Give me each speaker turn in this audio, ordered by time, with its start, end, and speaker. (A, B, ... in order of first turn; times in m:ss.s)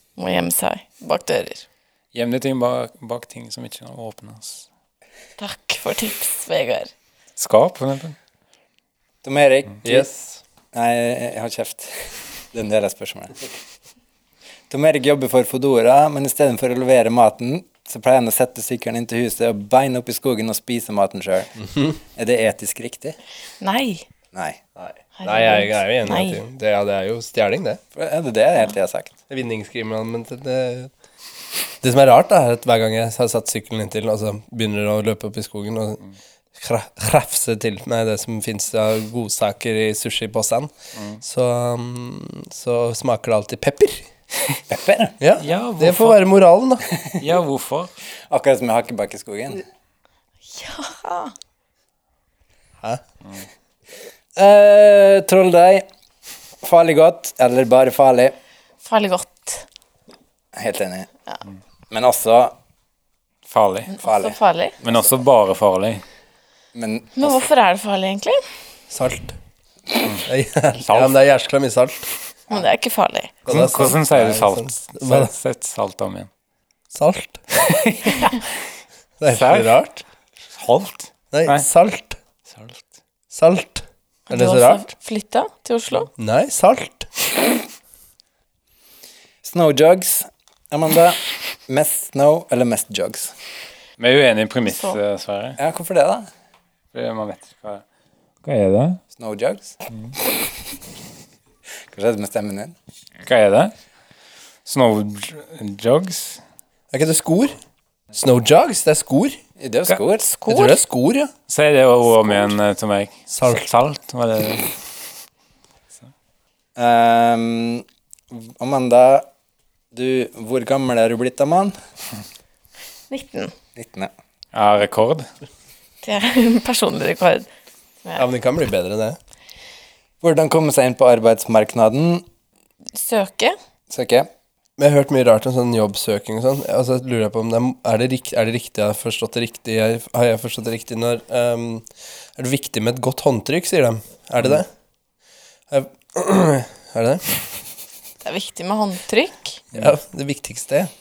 0:00.2-0:01.6 A
0:02.1-0:04.6 B
0:05.4-0:06.9 A
0:07.4-0:08.2 B
0:09.2-0:10.1 C
0:09.8-0:10.4 D
0:10.7-0:11.9 C
0:12.5-0:13.5 C
0:14.7-0:21.5 C
0:22.1-0:23.2 C
0:23.6-0:24.0 A
0:24.3-0:24.6 C
0:24.8-0:27.8 D
0:25.2-0:26.4 A
0:27.9-0:29.1 C
0:29.3-0:30.9 D
0:31.8-0:36.0 D
0:36.6-0:44.0 D
0:40.9-0:41.2 B
0:44.7-0:45.1 C
0:45.2-0:46.8 D
0:45.4-0:46.2 B
0:47.2-0:47.9 B
0:48.3-0:49.6 C
0:50.5-0:51.3 A
0:54.4-0:55.8 C
0:56.6-0:58.3 C
0:58.8-0:59.6 A
1:00.5-1:01.1 C
1:01.9-1:02.6 C
1:03.5-1:03.9 B
1:03.9-1:04.8 A
1:04.0-1:05.1 C
1:04.8-1:06.0 B
1:06.7-1:07.5 C
1:07.2-1:08.4 A
1:08.9-1:09.4 D
1:10.2-1:12.1 D
1:10.8-1:11.1 B
1:12.5-1:13.4 A
1:13.4-1:15.3 D
1:13.5-1:16.3 B
1:16.9-1:17.4 D
1:17.6-1:18.5 B
1:19.2-1:20.0 D
1:19.2-1:19.8 B
1:20.6-1:21.6 B
1:21.3-1:22.2 D
1:22.5-1:22.8 B
1:23.3-1:24.9 D
1:24.3-1:26.1 A
1:26.2-1:27.3 D
1:29.4-1:33.3 C
1:34.0-1:35.6 B
1:34.6-1:35.0 A
1:35.6-1:36.3 C
1:36.9-1:37.8 B
1:38.4-1:39.0 B
1:39.1-1:39.7 C
1:41.9-1:42.7 C
1:43.2-1:43.7 B
1:44.6-1:46.4 B
1:46.9-1:47.6 D
1:48.1-1:49.4 D
1:49.6-1:50.3 C
1:50.2-1:50.8 A
1:50.4-1:51.3 D
1:51.5-1:54.8 B
1:53.3-1:53.6 D
1:56.8-1:59.3 C
1:59.9-2:01.8 C
2:03.1-2:03.5 A
2:03.8-2:04.1 C
2:04.5-2:05.3 B
2:06.0-2:07.5 A
2:08.1-2:09.2 D
2:10.2-2:12.2 C
2:12.9-2:13.6 A
2:13.9-2:14.3 C
2:14.8-2:24.7 D
2:25.7-2:27.5 D
2:28.2-2:29.6 A
2:29.7-2:30.9 D